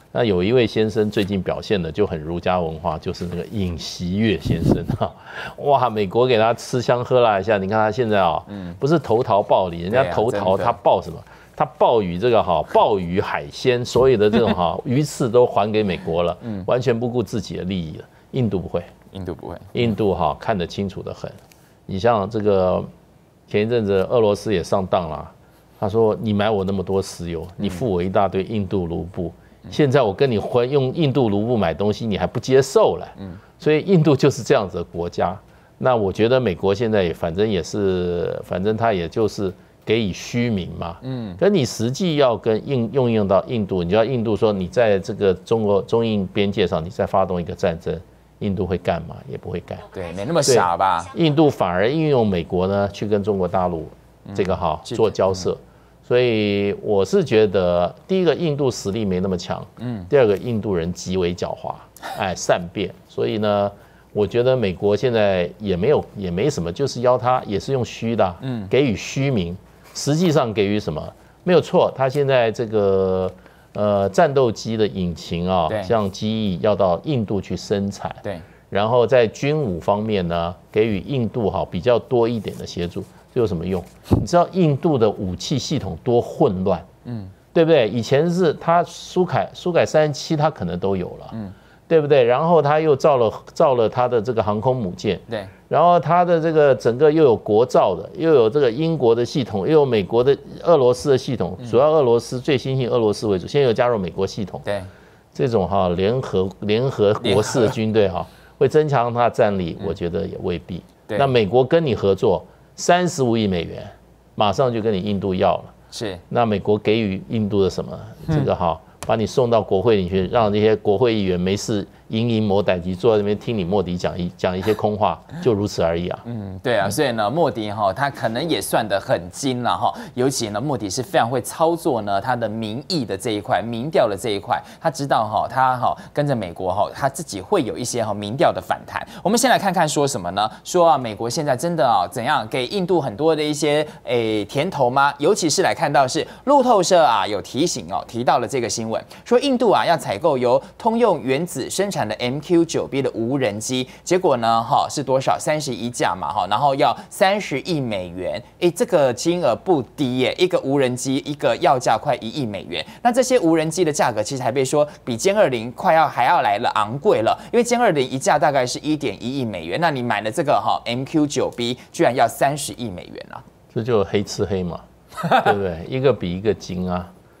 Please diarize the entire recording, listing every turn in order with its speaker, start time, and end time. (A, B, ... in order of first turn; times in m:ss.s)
0:00.1-0:18.9 A
0:08.5-0:08.8 B
0:09.9-0:10.8 B
0:19.1-0:19.7 B
0:19.7-0:22.9 A
0:23.5-0:49.9 A
0:41.0-0:41.4 B
0:49.9-0:51.1 B
0:50.4-1:26.9 A
0:54.2-0:55.5 B
0:59.8-1:00.1 B
1:08.4-1:08.7 B
1:27.0-1:27.3 B
1:27.5-1:31.3 A
1:31.9-1:44.6 A
1:44.6-1:44.9 B
1:45.3-1:55.7 A
1:47.2-1:47.7 B
1:55.9-1:56.2 B
1:56.3-2:06.2 A
2:06.2-2:53.4 B
2:53.7-2:57.1 A